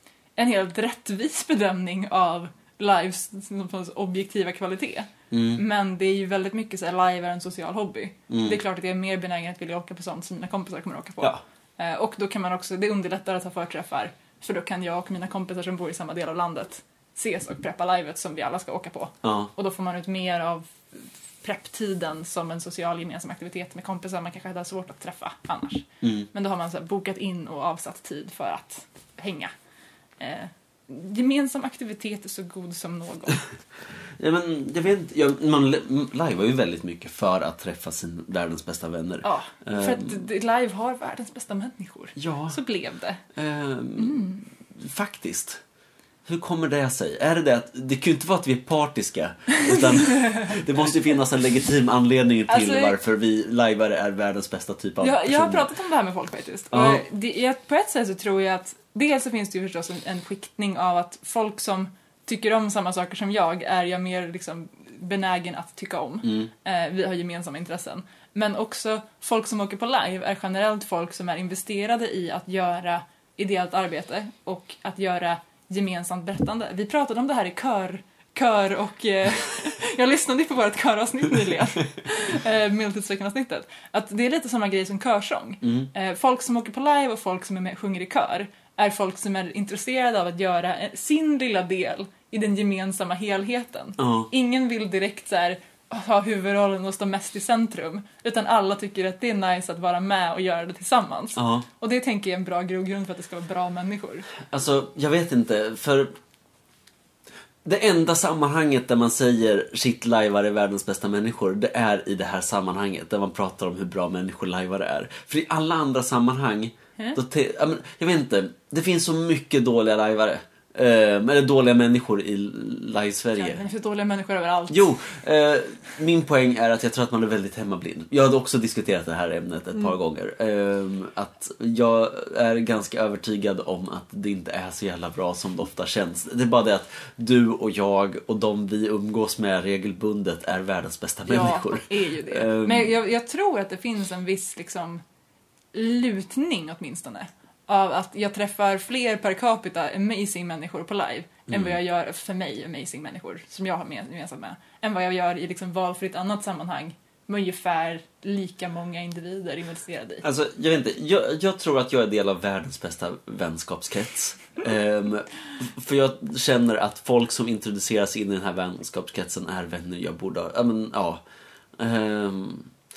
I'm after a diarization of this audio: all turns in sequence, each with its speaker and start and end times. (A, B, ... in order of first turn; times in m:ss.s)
0:00.4-0:29.5 A
0:05.3-0:05.6 B
0:08.3-0:08.6 B
0:19.2-0:19.5 B
0:26.0-0:26.3 B
0:30.2-0:33.4 A
0:34.2-0:40.2 B
0:39.2-0:43.2 A
0:42.2-0:42.6 B
0:43.4-0:45.6 B
0:44.0-0:44.4 A
0:46.2-0:55.7 B
0:49.6-0:50.6 A
0:52.5-0:53.0 A
0:55.0-1:44.3 A
0:56.7-0:57.0 B
1:06.2-1:06.5 B
1:25.6-1:25.9 B
1:34.0-1:34.3 B
1:41.4-1:41.6 B
1:44.5-1:46.1 B
1:47.6-2:03.6 B
2:03.4-2:04.9 A
2:04.7-2:22.9 B
2:21.3-2:25.0 A
2:25.7-2:40.2 A
2:31.5-2:31.7 B
2:40.2-2:51.2 B
2:51.8-2:52.7 B